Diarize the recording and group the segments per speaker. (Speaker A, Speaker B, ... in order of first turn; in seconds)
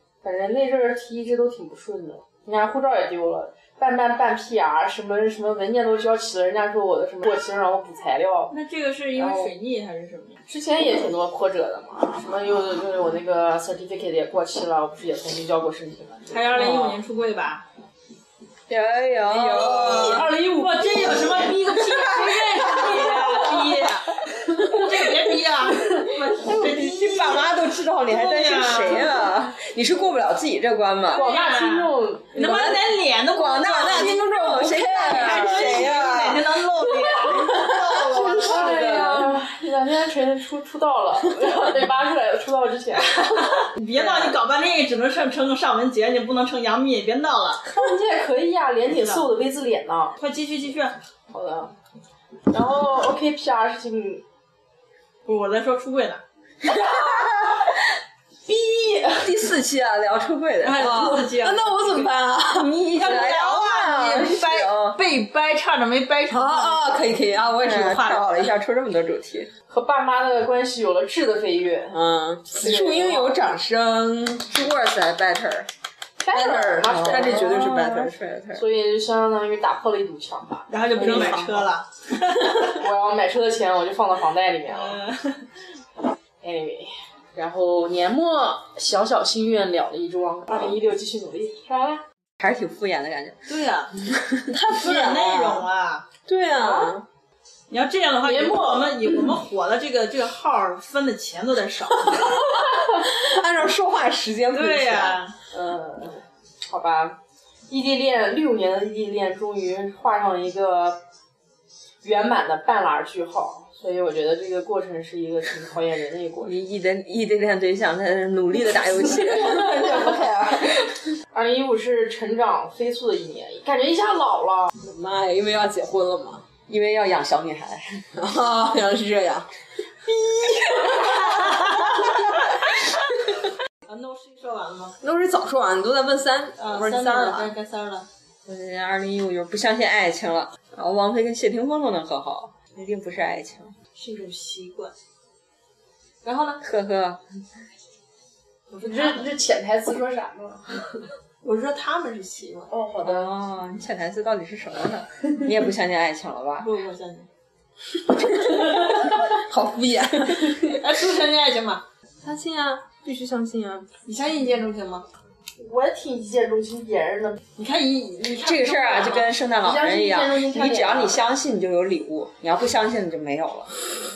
Speaker A: 0.2-8.5, 9.2-9.5, 10.5-16.6, 19.5-21.7, 22.8-23.7, 24.3-24.9, 31.1-32.8, 37.0-43.7, 47.7-50.2, 51.3-51.7, 52.5-54.2, 57.0-57.2, 58.5-59.3, 69.7-72.0, 72.5-73.4, 76.2-77.5, 78.5-81.7, 82.6-85.0, 86.4-92.0, 96.6-97.0, 98.2-99.4, 105.5-111.0, 112.0-116.5, 121.3-124.7, 148.8-150.9, 152.7-153.3, 165.6-167.4, 169.6-171.2
Speaker B: 8.5-10.4, 16.3-17.6, 19.7-27.5, 28.1-29.3, 31.1-37.9, 38.4-39.0, 43.0-47.8, 48.9-49.3, 50.2-51.0, 55.3-56.2, 60.6-62.1, 63.0-67.0, 80.7-82.8, 84.7-85.4, 93.5-93.9, 94.7-96.1, 97.7-102.5, 104.5-105.4, 130.9-131.9, 133.9-135.0, 136.6-138.1, 144.0-144.9, 146.2-146.6, 148.7-149.3, 151.4-152.7, 156.6-157.3, 160.5-161.8, 164.1-165.1, 167.6-169.3
Speaker C: 16.5-17.0, 18.7-20.3, 22.1-22.9, 26.4-31.3, 32.4-36.4, 37.1-39.3, 44.0-44.4, 56.6-57.8, 59.2-61.2, 62.5-65.0, 67.6-69.5, 74.5-75.7, 76.8-78.7, 92.4-93.4, 94.0-94.5, 116.4-121.0, 126.7-128.1, 138.5-143.8, 146.6-147.2, 153.0-156.7, 168.4-173.8
Speaker D: 19.3-20.3, 33.7-36.2, 37.5-38.7, 60.8-62.8, 66.3-68.5, 71.9-74.6, 76.3-78.2, 81.0-81.5, 94.5-95.7, 96.3-97.1, 102.2-105.2, 124.8-126.5, 128.2-129.5, 130.4-132.7, 135.0-137.5, 158.1-160.8, 162.2-163.9